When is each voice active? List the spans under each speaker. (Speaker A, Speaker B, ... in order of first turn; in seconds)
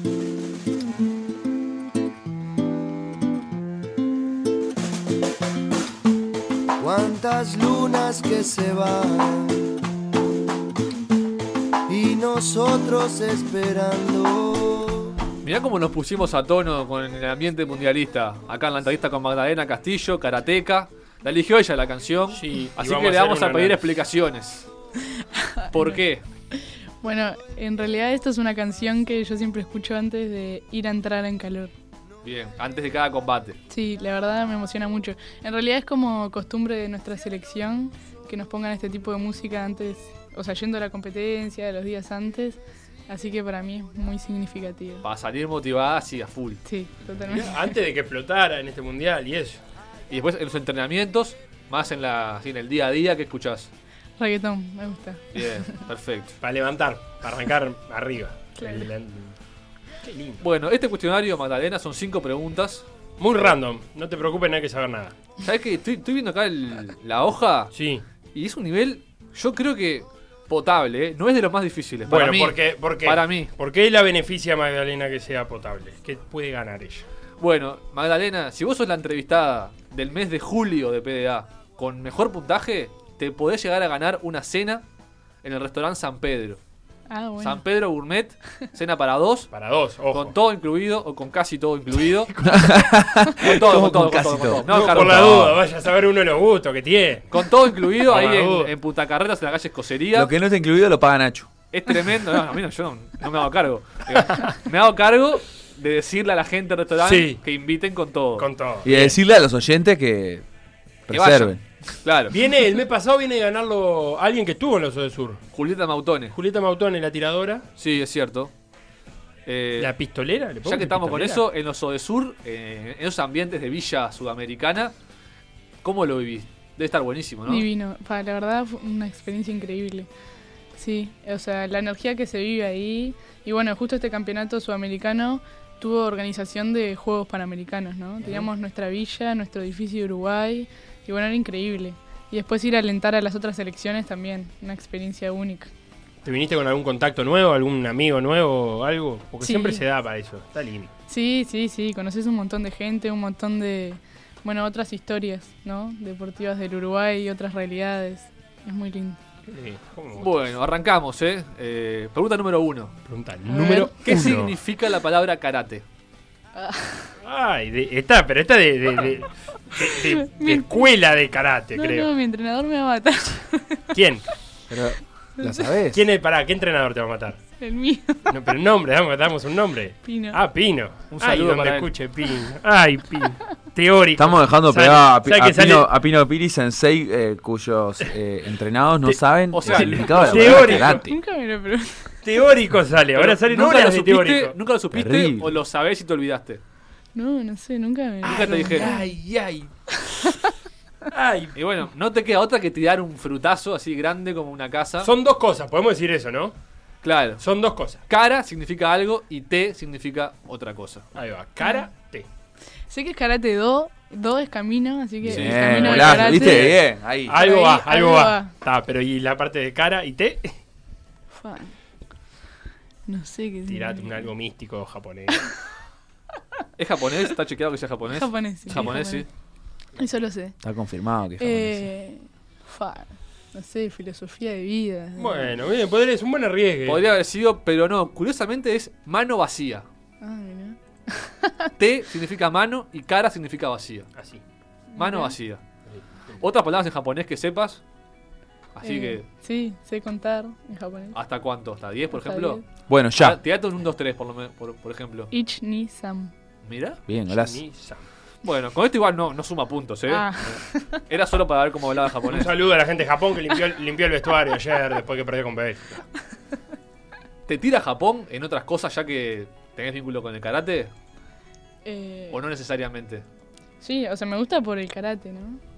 Speaker A: 6.8-9.7, 11.9-15.2
Speaker B: 15.4-24.7, 25.7-26.2, 32.2-33.6, 45.0-46.6, 50.1-53.7, 55.3-56.4, 60.4-62.9, 65.4-67.7, 68.3-73.5, 77.4-84.8, 85.4-86.6, 87.4-89.5, 90.1-92.3, 93.4-95.4, 97.3-100.3, 101.7-109.0, 111.1-112.4, 115.5-116.3, 117.8-118.5, 119.5-119.9, 120.6-124.9, 125.8-127.7, 160.2-162.9, 163.7-165.8, 181.1-181.9, 189.5-190.8, 193.1-196.6, 198.2-198.9, 201.5-205.1, 207.0-207.4, 208.1-211.1, 215.2-216.4, 226.8-229.2, 236.8-239.8, 241.8-244.1, 245.0-245.6, 246.4-247.8, 248.7-249.2, 251.1-252.6, 253.2-255.3, 256.6-257.0, 258.4-262.5, 267.5-270.9, 272.3-273.2
Speaker C: 22.3-23.8, 47.2-49.6, 56.4-59.3, 60.0-60.4, 63.2-65.2, 67.7-68.0, 72.1-77.0, 89.5-90.3, 94.7-97.3, 98.0-98.7, 107.0-107.4, 108.4-109.2, 112.3-115.4, 116.3-117.7, 119.8-121.4, 146.2-150.9, 159.5-160.5, 163.0-164.6, 167.2-172.1, 173.9-174.2, 175.9-177.4, 178.3-185.9, 189.1-191.0, 192.2-194.6, 198.2-199.7, 201.1-201.5, 205.0-206.5, 207.4-208.0, 211.1-212.3, 216.2-220.5, 223.7-225.5, 235.2-237.0, 244.2-244.4, 245.9-246.4, 257.3-258.1, 262.2-266.0
Speaker D: 25.1-26.0, 26.5-31.7, 33.7-45.0, 46.6-47.6, 54.2-55.7, 58.5-58.9, 87.1-87.6, 127.5-130.1, 130.8-145.7, 149.4-149.8, 151.1-159.2, 163.5-164.0, 166.6-167.1, 170.1-170.8, 171.8-173.9, 175.4-175.7, 177.6-178.3, 180.0-180.4, 190.8-192.2, 197.1-199.1, 200.1-200.4, 211.6-211.8, 212.9-216.7, 217.3-218.5, 221.3-221.7, 223.1-224.3, 228.1-229.2, 230.0-230.6, 231.4-235.5, 240.2-241.7, 244.9-245.3, 248.8-251.2, 252.1-252.6, 255.3-256.3, 260.1-261.0, 271.8-272.4, 273.8-275.6
Speaker E: 92.4-95.6, 100.1-101.5, 108.8-110.4, 111.1-111.6, 174.7-176.0, 184.2-191.2, 194.9-195.6, 215.2-217.4, 230.6-231.9, 252.9-253.4, 257.1-257.6